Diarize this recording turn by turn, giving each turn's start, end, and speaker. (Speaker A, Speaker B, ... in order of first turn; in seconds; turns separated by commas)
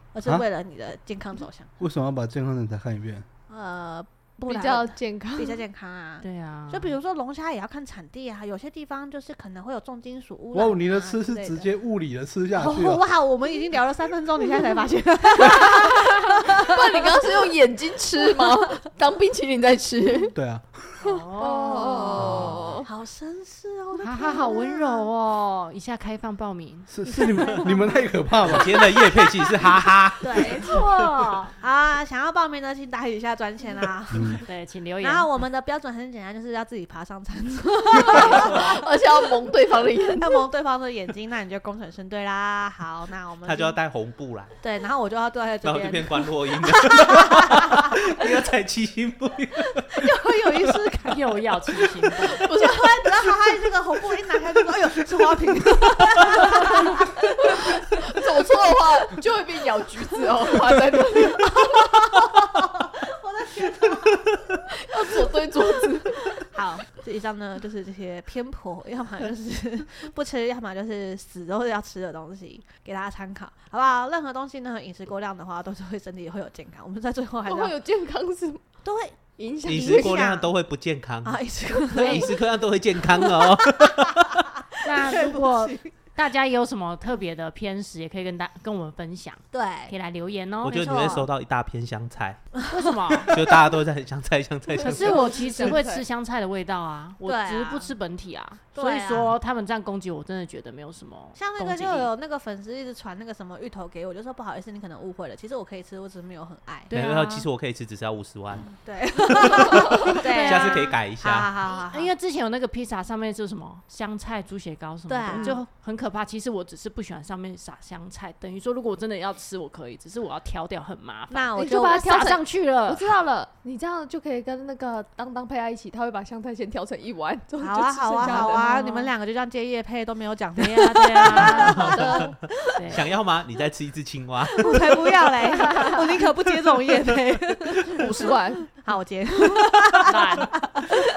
Speaker A: 0.1-1.7, Speaker B: 1.8-3.3, Speaker A: 3.5-11.7, Speaker C: 4.5-5.6, Speaker D: 6.2-7.0, Speaker B: 10.5-13.1, Speaker A: 12.6-17.4, Speaker C: 15.4-20.4, Speaker A: 18.4-18.6, Speaker B: 20.4-20.7, Speaker D: 21.0-22.8, Speaker C: 21.4-22.9, Speaker A: 21.4-25.1, Speaker D: 24.0-27.6, Speaker B: 26.9-29.0, Speaker A: 27.5-27.7, Speaker E: 28.4-30.6, Speaker A: 30.2-30.9, Speaker D: 30.3-31.6, Speaker A: 31.6-34.5, Speaker B: 34.1-34.4, Speaker D: 34.5-35.3, Speaker A: 35.0-38.8, Speaker C: 38.0-40.5, Speaker A: 40.2-43.8, Speaker E: 43.4-44.6, Speaker A: 44.6-48.4, Speaker E: 45.6-50.8, Speaker A: 49.8-51.3, Speaker D: 51.0-52.5, Speaker A: 51.8-58.5, Speaker C: 52.2-53.3, Speaker C: 56.5-61.9, Speaker A: 61.5-77.7, Speaker C: 64.7-66.5, Speaker C: 77.5-78.6, Speaker A: 78.8-80.5, Speaker C: 79.4-80.3, Speaker E: 79.7-84.5, Speaker A: 81.2-82.4, Speaker C: 81.8-82.3, Speaker A: 83.2-84.0, Speaker A: 84.7-85.9, Speaker D: 84.8-91.0, Speaker A: 89.5-89.9, Speaker E: 90.6-92.6, Speaker A: 90.7-91.3, Speaker D: 92.7-93.3, Speaker A: 93.1-93.7, Speaker E: 93.3-95.3, Speaker A: 94.7-95.2, Speaker D: 94.8-102.1, Speaker C: 95.0-96.0, Speaker A: 97.2-97.9, Speaker A: 98.7-99.4, Speaker A: 101.3-106.9, Speaker D: 106.9-107.5, Speaker E: 106.9-108.7, Speaker A: 108.7-112.1, Speaker E: 109.6-111.5, Speaker D: 110.1-110.9, Speaker D: 111.7-123.1, Speaker A: 115.1-115.7, Speaker A: 121.3-122.2, Speaker C: 121.6-128.9, Speaker A: 127.6-132.1, Speaker D: 128.2-129.1, Speaker D: 130.6-132.2, Speaker C: 131.2-132.5, Speaker E: 131.5-132.2, Speaker D: 132.7-133.0, Speaker E: 132.9-135.1, Speaker A: 134.6-141.0, Speaker C: 135.5-136.2, Speaker C: 137.8-138.8, Speaker D: 140.1-140.5